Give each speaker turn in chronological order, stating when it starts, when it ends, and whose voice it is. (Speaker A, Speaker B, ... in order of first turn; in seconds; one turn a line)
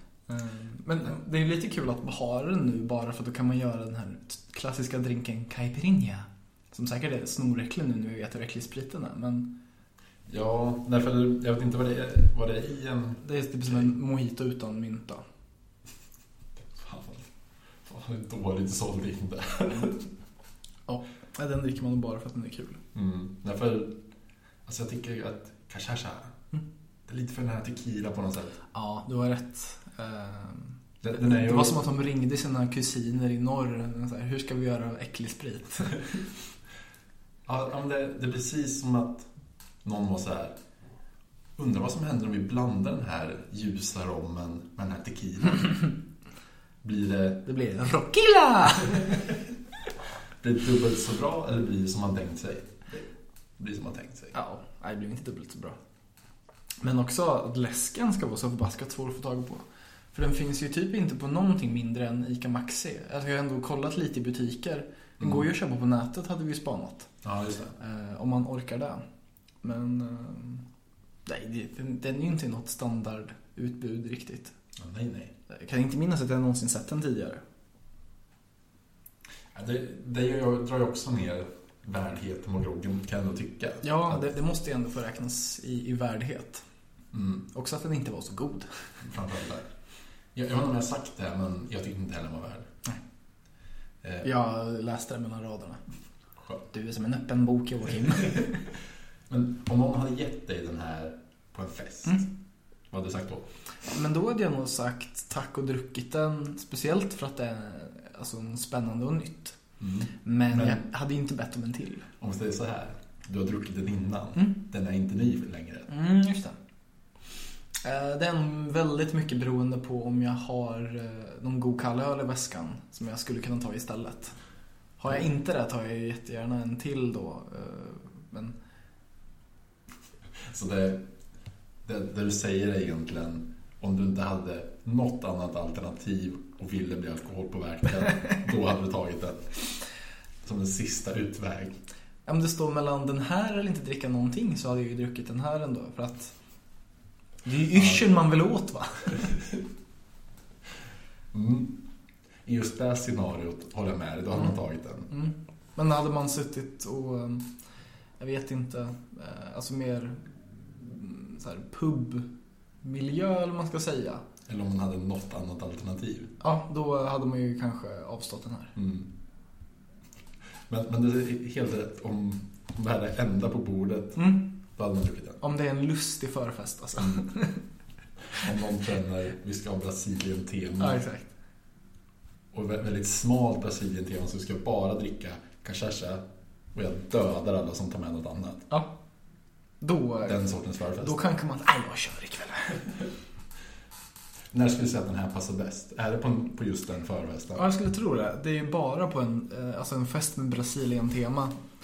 Speaker A: 0.3-9.5
Speaker B: 10.3-13.8
Speaker A: 13.2-15.2
Speaker B: 16.7-17.3
Speaker B: 17.8-20.1
Speaker A: 20.9-22.8
Speaker B: 22.9-24.0
Speaker B: 24.6-26.3
Speaker B: 27.1-28.6
Speaker A: 28.7-36.1
Speaker B: 31.0-31.8
Speaker B: 37.5-39.3
Speaker B: 39.8-40.6
Speaker B: 41.6-45.9
Speaker B: 46.8-47.5
Speaker A: 47.5-49.1
Speaker B: 48.9-49.3
Speaker B: 50.4-54.3
Speaker A: 54.3-55.8
Speaker A: 56.8-67.1
Speaker B: 65.2-65.4
Speaker B: 67.2-67.7
Speaker A: 67.8-69.0
Speaker A: 69.6-70.7
Speaker A: 71.2-74.5
Speaker B: 74.8-75.3
Speaker A: 75.5-77.4
Speaker B: 79.5-84.2
Speaker A: 83.8-86.6
Speaker B: 87.1-87.4
Speaker A: 87.5-88.8
Speaker B: 89.0-89.7
Speaker B: 90.3-92.7
Speaker B: 94.0-94.3
Speaker A: 94.2-95.8
Speaker A: 96.7-98.6
Speaker B: 99.3-102.3
Speaker B: 102.9-103.5
Speaker A: 103.8-109.6
Speaker B: 109.8-110.8
Speaker A: 110.2-112.1
Speaker B: 112.2-115.9
Speaker A: 115.9-116.6
Speaker A: 117.8-124.3
Speaker A: 125.0-128.5
Speaker B: 130.4-131.1
Speaker B: 131.8-139.8
Speaker B: 140.4-141.8
Speaker A: 142.2-146.3
Speaker A: 147.4-149.3
Speaker B: 151.3-151.8
Speaker B: 152.4-155.1
Speaker A: 155.1-157.5
Speaker A: 158.2-162.3
Speaker A: 162.8-164.2
Speaker B: 164.4-166.3
Speaker A: 166.4-168.8
Speaker B: 168.8-169.1
Speaker B: 170.7-175.4
Speaker A: 174.2-174.4
Speaker A: 175.4-177.6
Speaker B: 178.3-181.0
Speaker A: 180.8-181.3
Speaker B: 182.5-188.7
Speaker A: 189.8-190.4
Speaker B: 190.2-191.2
Speaker A: 191.0-192.8
Speaker B: 194.5-197.7
Speaker A: 197.5-201.6